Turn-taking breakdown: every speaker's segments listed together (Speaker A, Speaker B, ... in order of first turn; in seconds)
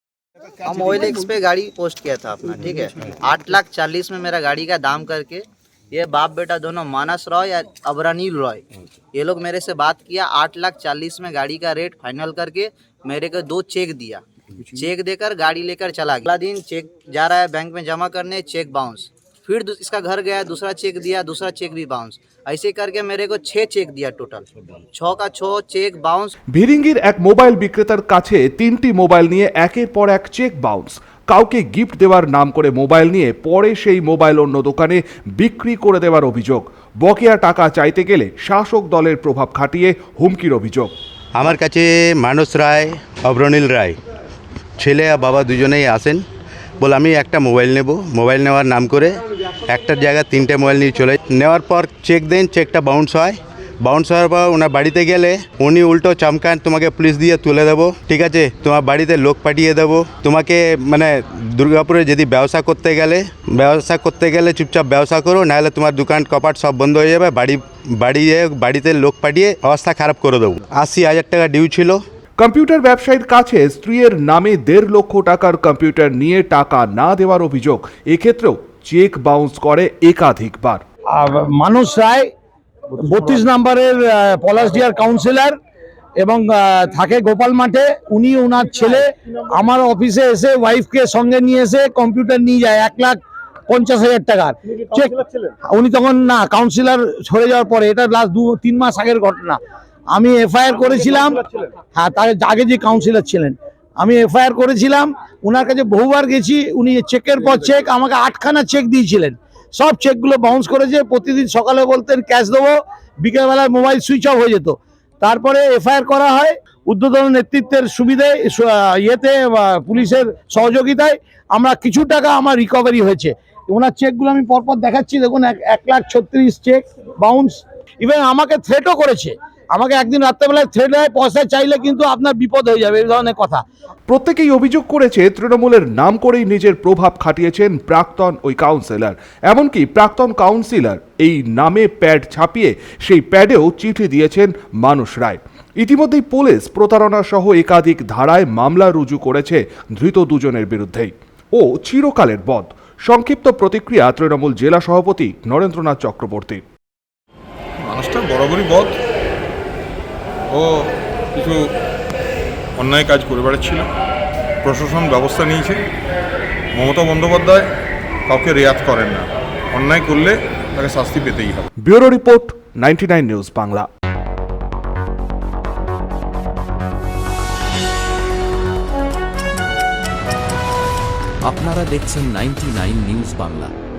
Speaker A: 0.6-26.3
Speaker B: 26.5-40.9, 72.4-80.8, 134.1-156.6, 171.8-173.9
Speaker C: 41.4-44.0, 44.8-46.2, 46.8-72.0
Speaker D: 81.1-82.3, 83.0-85.6, 86.2-99.6, 100.1-133.6
Speaker E: 157.8-159.0, 160.5-161.7, 162.8-163.9, 164.6-165.8, 166.7-167.7, 168.3-171.7
Speaker F: 181.5-183.7